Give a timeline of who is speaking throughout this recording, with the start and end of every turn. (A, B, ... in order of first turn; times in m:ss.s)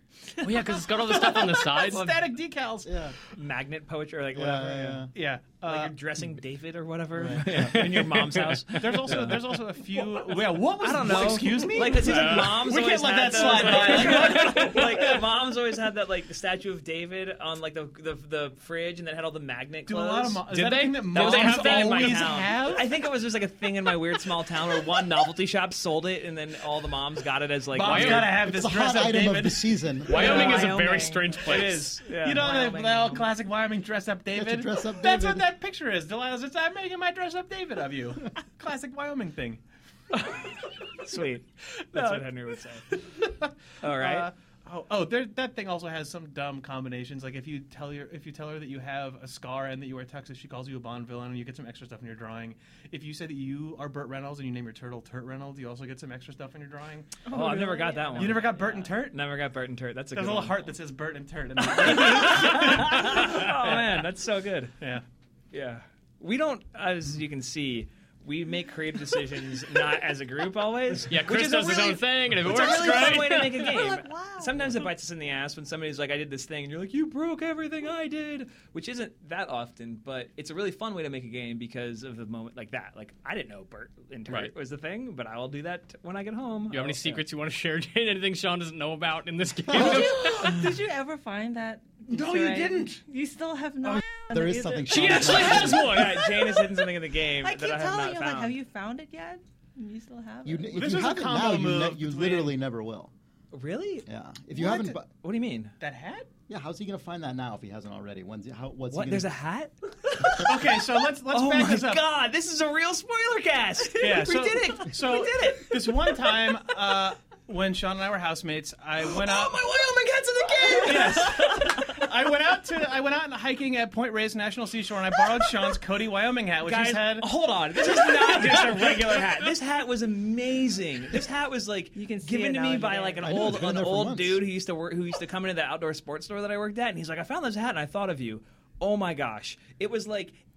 0:00.4-0:02.3 A
0:00.8-0:03.0 B
0:02.8-0:03.2 C
0:03.3-0:05.1 D
0:04.3-0:05.1 C
0:05.1-0:06.0 B
0:05.6-0:09.4 D
0:07.2-0:08.0 C
0:07.7-0:08.8 A
0:08.8-0:15.2 B
0:10.8-0:20.5 D
0:11.8-0:12.6 A
0:19.9-0:22.9 B
0:20.5-0:22.3 A
0:21.1-0:28.2 D
0:27.7-0:29.8 B
0:27.8-0:28.3 A
0:28.0-0:30.4 C
0:30.1-0:32.0 A
0:30.1-0:31.4 E
0:30.1-0:32.5 D
0:32.1-0:39.6 B
0:32.2-0:33.3 E
0:34.4-0:35.5 C
0:40.1-0:43.0 D
0:42.0-0:42.2 B
0:42.9-0:57.2 B
0:43.8-0:44.3 D
0:57.3-0:58.8 E
0:57.3-1:00.7 D
0:58.1-0:59.2 B
1:00.1-1:03.9 B
1:01.7-1:04.7 D
1:05.5-1:27.2 D
1:11.1-1:13.7 A
1:12.8-1:14.8 E
1:26.7-1:30.7 A
1:29.7-1:40.8 E
1:32.1-1:33.0 B
1:33.9-1:36.0 C
1:34.9-1:36.3 A
1:34.9-1:38.5 D
1:40.4-1:43.1 C
1:40.7-1:42.6 B
1:43.5-1:45.7 D
1:44.1-1:45.1 C
1:45.8-1:46.3 B
1:46.5-1:49.3 C
1:48.9-1:56.2 D
1:50.3-1:52.0 B
1:54.0-1:59.7 B
1:59.0-2:02.1 D
2:00.7-2:07.3 B
2:06.6-2:20.4 D
2:12.0-2:13.4 E
2:13.2-2:14.5 C